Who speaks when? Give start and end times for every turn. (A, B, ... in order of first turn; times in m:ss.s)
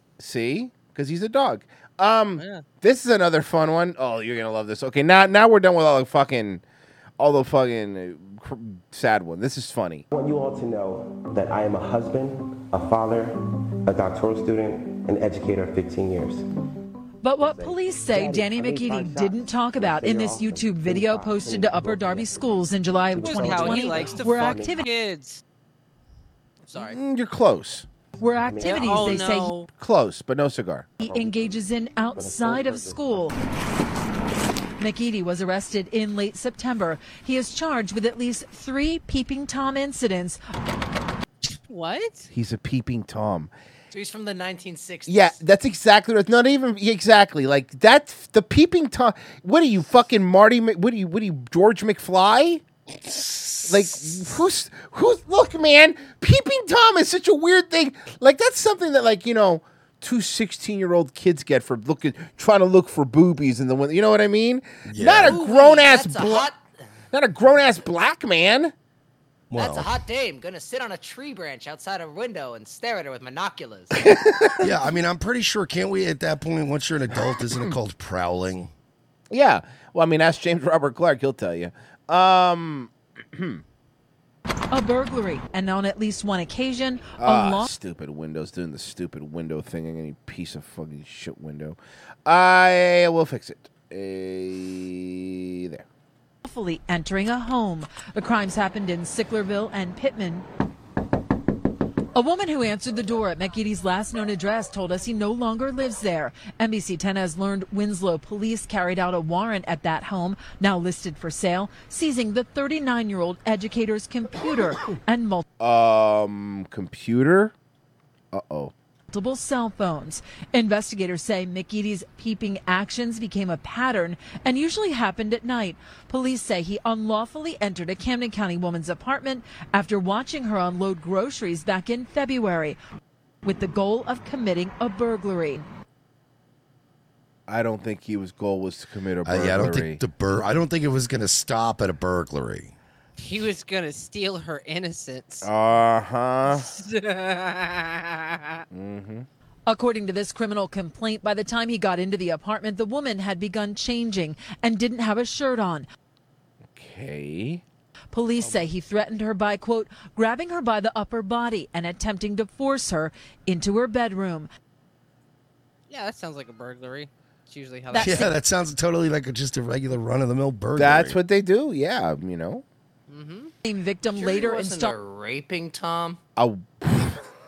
0:00.2-0:06.6 A
0:02.4-0:02.6 B
0:07.2-0:10.1 A
0:10.1-0:16.4 C
0:17.2-0:24.9 D
0:17.4-0:22.5 C
0:23.1-0:24.8 C
0:23.2-0:25.4 B
0:26.7-0:27.0 B
0:26.8-0:27.9 A
0:28.2-0:29.6 D
0:28.4-0:29.2 C
0:28.6-0:29.7 B
0:29.8-0:30.9 A
0:31.0-0:33.4 D
0:31.0-0:33.3 C
0:34.8-0:40.4 D
0:41.6-0:42.3 B
0:42.3-0:43.5 A
0:43.9-0:45.4 E
0:45.1-0:52.6 A
0:53.0-0:54.0 F
0:53.7-1:06.5 A
1:04.8-1:05.4 F
1:05.2-1:06.6 E
1:07.1-1:08.7 A
1:09.5-1:10.0 F
1:09.5-1:14.0 E
1:13.9-1:14.6 A
1:14.6-1:18.7 F
1:19.3-1:23.6 A
1:24.7-1:27.7 D
1:27.2-1:35.9 A
1:36.4-1:40.4 D
1:42.2-1:55.4 D
1:55.6-1:57.5 A
1:58.3-1:58.7 A
1:59.1-2:12.8 D
2:13.4-2:15.6 D
2:17.5-2:20.0 A
2:19.2-2:22.7 F
2:23.2-2:25.5 B
2:25.4-2:26.7 A
2:26.5-2:28.6 B
2:28.7-2:29.3 A
2:29.7-2:35.9 D
2:36.7-2:37.6 A
2:38.1-2:44.5 D
2:45.9-2:48.3 B
2:47.9-2:51.2 F
2:50.8-2:52.6 A
2:53.1-2:53.5 B
2:53.6-2:55.0 D
2:54.1-2:56.2 E
2:56.4-2:57.2 A